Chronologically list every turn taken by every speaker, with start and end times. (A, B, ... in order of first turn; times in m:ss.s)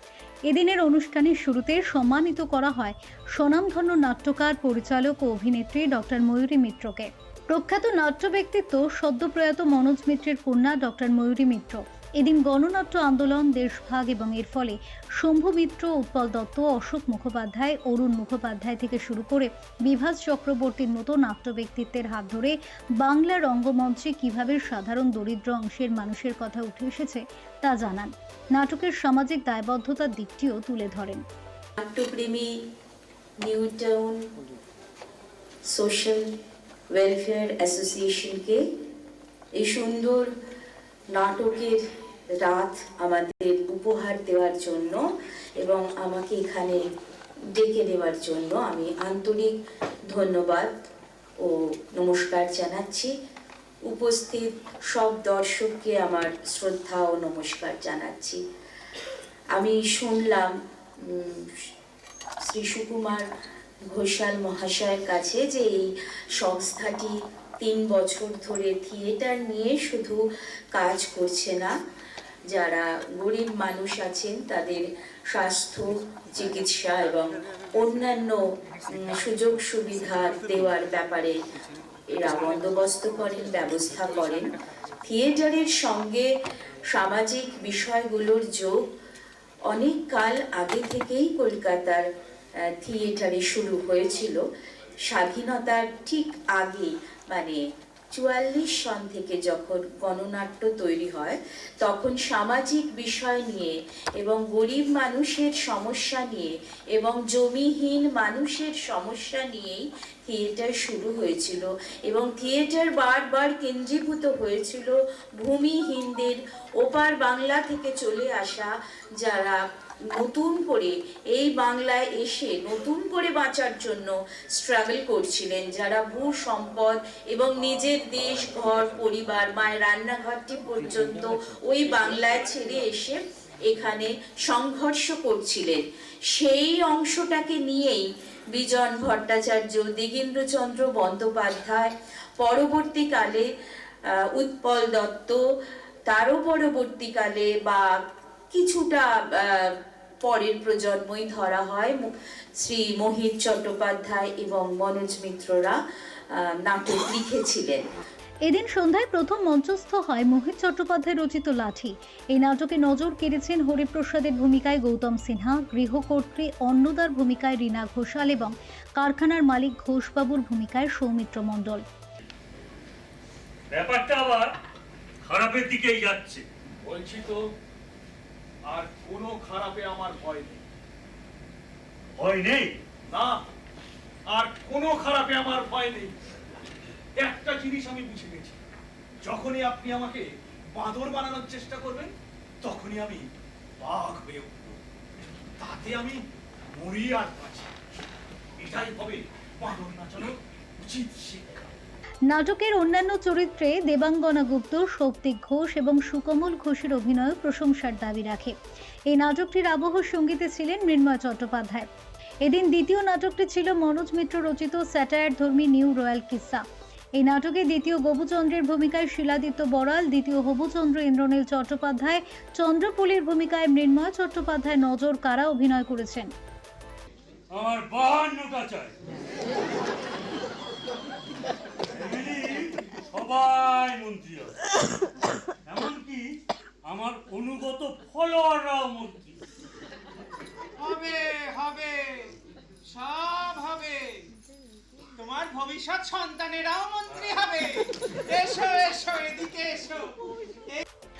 0:00.5-0:31.2 A
0:31.8-0:32.5 B
0:33.4-0:34.2 B
0:35.7-0:36.3 B
0:36.9-0:38.6 B
0:39.6-0:40.3 B
0:41.1-0:41.8 B
0:42.4-0:45.0 B
0:45.6-0:46.8 B
0:47.6-0:49.6 B
0:50.1-0:50.7 B
0:51.4-0:53.1 B
0:53.9-0:58.4 B
0:59.6-1:01.5 B
1:02.5-1:03.2 B
1:03.9-1:10.2 B
1:10.7-1:11.7 B
1:12.5-1:21.4 B
1:22.1-1:26.3 B
1:26.9-1:28.7 B
1:29.7-1:32.0 B
1:32.8-1:34.4 B
1:35.1-1:37.6 B
1:38.1-1:58.7 B
1:59.2-1:59.6 B
2:00.1-2:23.4 B
2:24.3-2:25.4 B
2:26.1-2:27.8 B
2:28.5-2:29.7 B
2:30.2-2:35.8 B
2:36.3-2:37.8 B
2:38.4-2:51.8 A
2:53.7-2:54.5 C
2:55.2-2:56.4 C
2:56.8-2:57.4 D
2:58.7-3:00.6 D
3:02.2-3:02.7 C
3:03.1-3:03.4 D
3:04.3-3:06.1 D
3:07.2-3:08.6 D
3:09.2-3:13.3 D
3:13.8-3:14.8 D
3:15.6-3:16.2 D
3:16.7-3:17.7 D
3:18.6-3:21.7 D
3:22.3-3:28.5 A
3:29.1-3:31.9 A
3:32.4-3:36.6 A
3:37.2-3:46.3 A
3:47.5-3:48.9 C
3:52.0-3:54.5 C
3:55.7-3:56.2 C
3:56.8-3:59.4 C
4:00.8-4:02.3 E
4:02.9-4:04.2 E
4:05.2-4:10.1 E
4:07.1-4:07.4 C